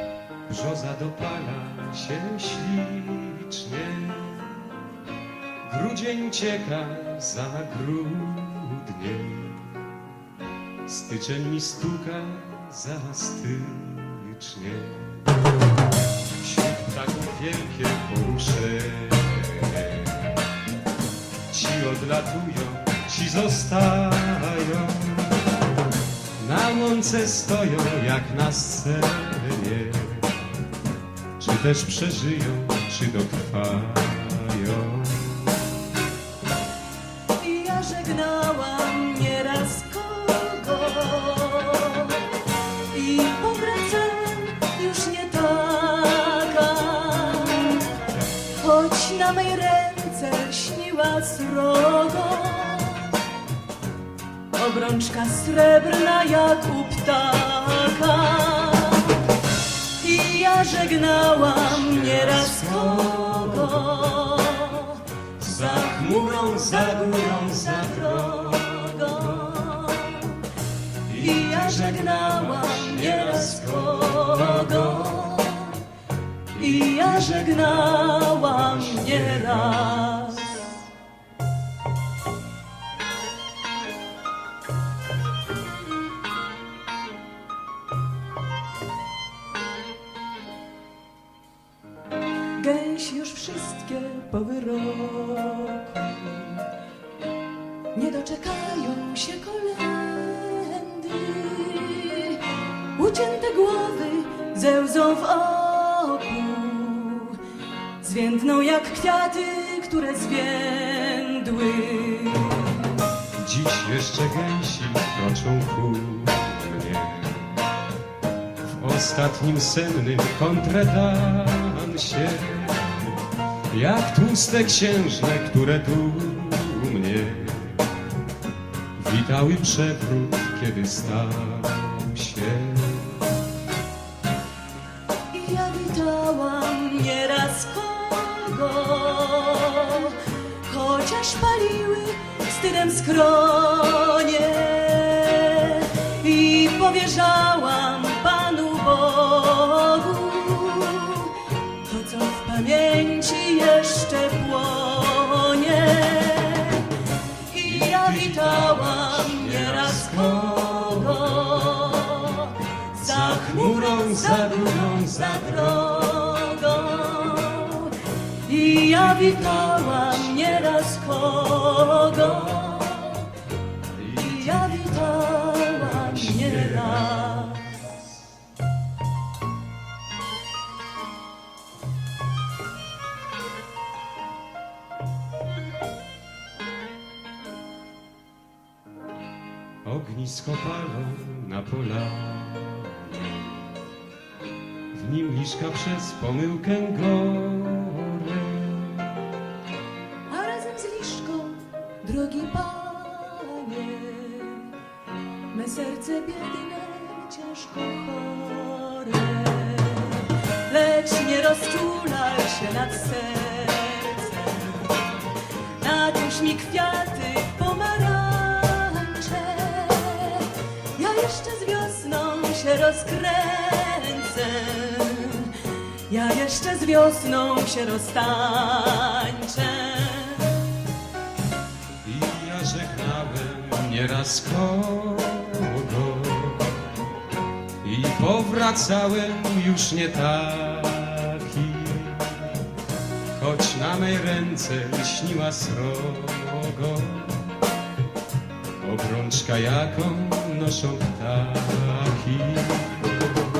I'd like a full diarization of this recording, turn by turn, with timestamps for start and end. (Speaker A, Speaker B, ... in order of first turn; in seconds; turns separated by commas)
Speaker A: 0.5-4.7, Speaker A: 5.6-10.1, Speaker A: 10.8-15.3, Speaker A: 16.4-20.4, Speaker A: 21.5-25.5, Speaker A: 26.4-30.5, Speaker A: 31.4-35.6, Speaker B: 37.4-47.9, Speaker B: 48.5-53.3, Speaker B: 54.5-59.3, Speaker B: 59.9-66.0, Speaker A: 60.6-64.2, Speaker A: 65.4-69.6, Speaker B: 67.8-70.5, Speaker A: 71.0-75.3, Speaker B: 71.1-75.9, Speaker A: 76.5-80.1, Speaker B: 76.5-80.7, Speaker B: 92.5-96.7, Speaker B: 97.9-107.4, Speaker B: 108.0-113.0, Speaker A: 113.3-117.7, Speaker A: 118.6-123.1, Speaker A: 123.7-128.1, Speaker A: 128.9-133.3, Speaker B: 135.3-173.3, Speaker A: 157.6-161.8, Speaker A: 163.0-166.0, Speaker A: 168.7-170.9, Speaker A: 173.9-177.9, Speaker B: 174.0-177.9, Speaker A: 189.8-193.8, Speaker A: 194.9-199.3, Speaker B: 200.3-204.8, Speaker B: 205.5-215.0, Speaker B: 215.8-230.7, Speaker A: 232.0-236.9, Speaker A: 237.8-242.7, Speaker A: 243.3-247.7, Speaker A: 248.8-253.2